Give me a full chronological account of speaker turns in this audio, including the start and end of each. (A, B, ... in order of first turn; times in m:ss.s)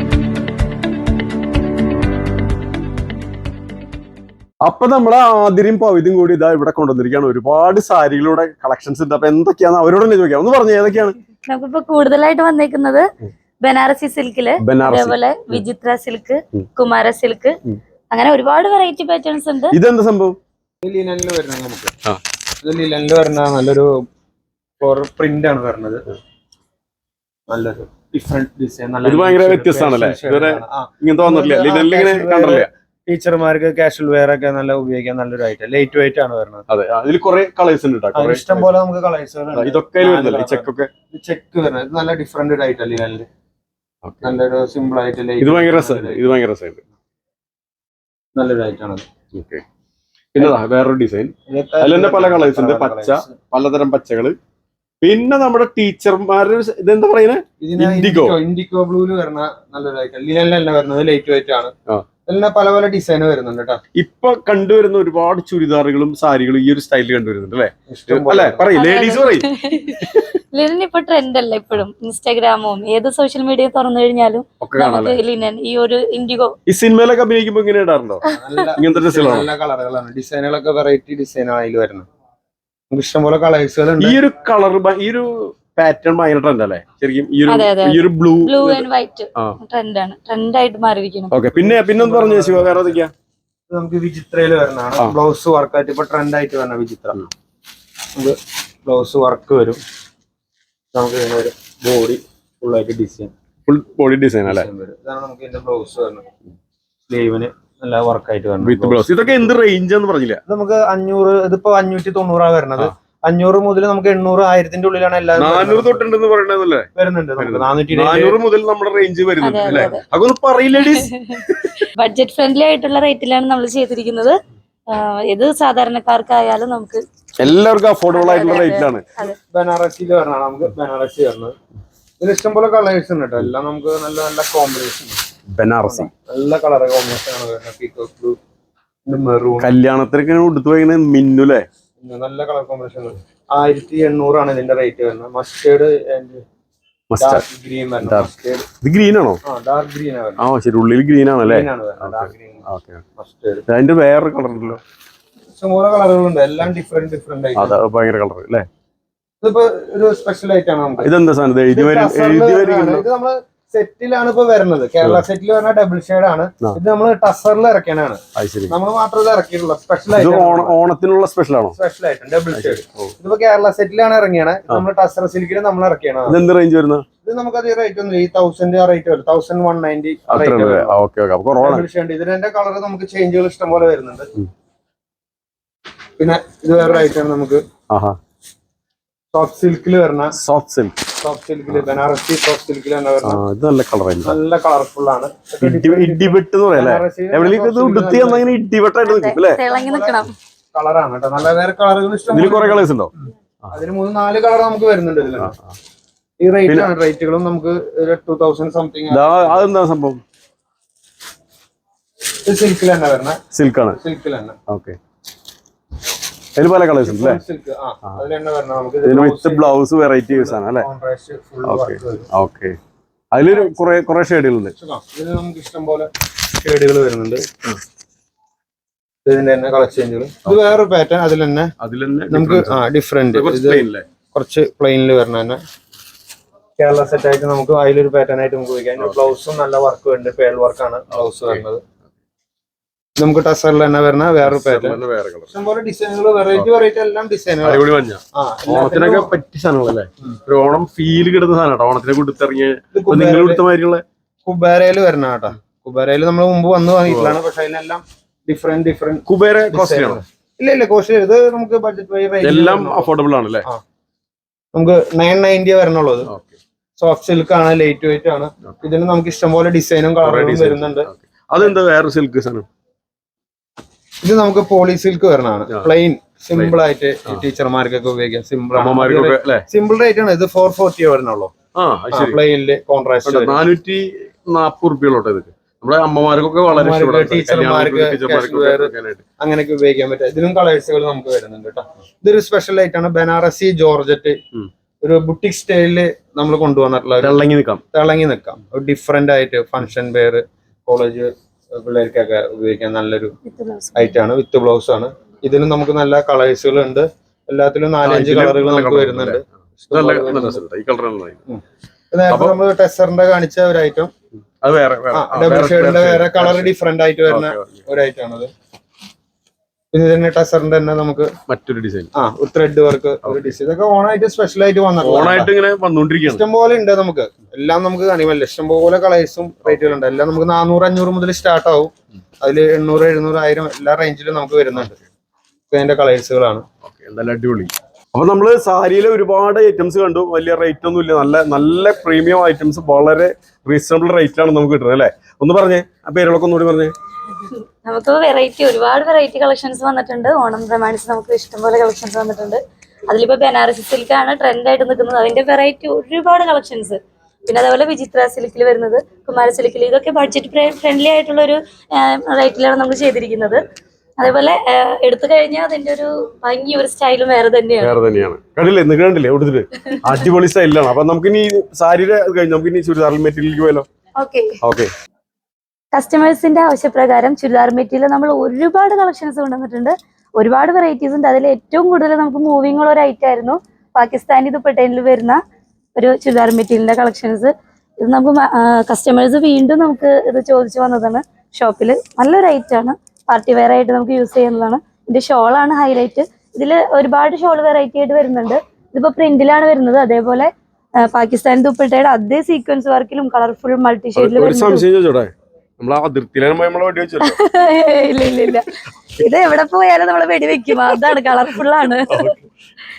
0:04.6-0:11.2 A
0:11.5-0:13.0 B
0:13.6-0:17.6 B
0:14.6-0:15.6 A
0:18.1-0:19.8 B
0:19.7-0:20.4 A
0:20.8-0:21.9 C
0:22.6-0:23.9 C
0:24.8-0:26.0 C
0:27.5-0:36.6 C
0:29.0-0:32.7 A
0:36.7-0:38.7 A
0:38.1-0:43.3 C
0:39.6-0:40.9 A
0:44.0-0:44.4 A
0:44.2-0:46.3 C
0:45.4-0:46.8 A
0:48.4-0:49.0 C
0:49.3-0:49.6 A
0:50.3-0:54.4 A
0:51.5-0:53.4 C
0:55.0-0:58.4 A
0:57.6-1:01.7 C
1:02.3-1:03.8 C
1:04.0-1:10.3 A
1:07.9-1:08.7 C
1:08.7-1:16.6 B
1:14.6-1:15.2 A
1:16.7-1:18.2 A
1:18.2-1:22.1 C
1:18.8-1:19.5 A
1:22.9-1:24.2 C
1:24.0-1:28.8 A
1:27.5-1:31.4 B
1:31.3-1:33.1 A
1:31.4-1:33.0 C
1:33.7-1:37.2 C
1:38.2-1:39.8 C
1:40.9-1:43.3 C
1:43.7-1:44.7 A
1:44.4-1:46.3 C
1:47.1-1:49.5 C
1:48.6-1:50.4 A
1:50.5-1:56.1 C
1:55.4-2:01.8 A
1:57.0-1:58.4 C
1:59.4-2:00.0 B
2:00.8-2:01.4 B
2:02.0-2:04.4 B
2:04.9-2:07.0 B
2:07.4-2:09.0 A
2:08.1-2:09.4 B
2:09.5-2:11.6 C
2:12.2-2:15.2 C
2:15.6-2:16.1 A
2:15.9-2:18.4 C
2:19.1-2:19.7 C
2:19.6-2:21.7 A
2:22.0-2:26.4 C
2:27.1-2:27.4 A
2:27.2-2:28.7 C
2:28.0-2:29.4 A
2:29.5-2:30.4 C
2:30.4-2:33.0 A
2:31.4-2:32.6 C
2:33.2-2:33.6 C
2:33.7-2:34.8 A
2:35.6-2:37.8 C
2:37.6-2:38.7 A
2:39.4-2:41.1 C
2:41.0-2:43.0 A
2:41.7-2:50.8 C
2:48.4-2:48.8 A
2:50.2-2:51.8 A
2:51.8-2:56.4 C
2:52.6-2:53.1 A
2:56.3-2:57.0 A
2:57.2-3:01.0 C
3:00.3-3:01.8 A
3:01.6-3:04.3 C
3:06.2-3:07.6 C
3:07.9-3:08.2 A
3:09.3-3:10.4 C
3:10.4-3:11.0 A
3:11.2-3:13.4 C
3:11.7-3:12.0 A
3:13.2-3:14.4 A
3:14.2-3:18.5 C
3:15.6-3:19.6 A
3:19.0-3:20.3 B
3:19.6-3:22.9 C
3:22.3-3:23.1 A
3:23.7-3:25.6 C
3:26.4-3:29.7 C
3:26.7-3:26.9 A
3:29.1-3:30.2 A
3:32.5-3:33.4 C
3:33.5-3:34.0 A
3:33.9-3:34.6 C
3:34.7-3:35.0 A
3:36.6-3:37.4 A
3:37.0-3:39.8 C
3:39.0-3:40.9 A
3:40.3-3:42.3 C
3:41.6-3:42.8 A
3:43.3-3:44.8 A
3:44.8-3:47.5 C
3:49.2-3:51.7 C
3:51.8-3:54.1 A
3:52.3-3:55.6 C
3:56.8-4:01.8 C
3:59.0-3:59.3 A
4:01.1-4:01.6 A
4:03.2-4:09.4 C
4:04.4-4:05.5 A
4:07.6-4:14.0 A
4:12.9-4:13.6 C
4:14.4-4:23.1 C
4:17.1-4:17.4 A
4:19.3-4:20.2 A
4:22.4-4:23.7 A
4:24.7-4:26.3 C
4:26.3-4:26.6 A
4:27.0-4:31.7 C
4:30.2-4:32.7 A
4:34.2-4:41.5 C
4:38.8-4:39.7 A
4:41.8-4:42.4 A
4:42.1-4:43.6 C
4:43.2-4:49.2 A
4:46.7-4:54.4 C
4:55.0-4:57.4 C
4:57.2-4:57.8 A
4:57.9-5:03.3 C
5:03.4-5:04.2 B
5:04.0-5:10.6 C
5:08.0-5:11.4 A
5:11.5-5:14.1 C
5:12.3-5:12.6 A
5:14.6-5:16.7 A
5:15.1-5:18.5 C
5:17.3-5:17.8 A
5:19.9-5:21.3 C
5:21.5-5:22.1 A
5:22.2-5:25.5 C
5:23.2-5:23.6 A
5:25.0-5:26.4 A
5:26.3-5:34.9 C
5:35.7-5:36.6 C
5:36.9-5:46.9 A
5:47.4-6:03.7 B
6:04.2-6:08.0 B
6:07.8-6:13.9 A
6:14.2-6:14.5 B
6:14.6-6:14.9 A
6:15.9-6:25.4 B
6:26.0-6:44.8 B
6:44.2-6:47.4 A
6:47.2-6:52.3 B
6:52.1-6:52.5 A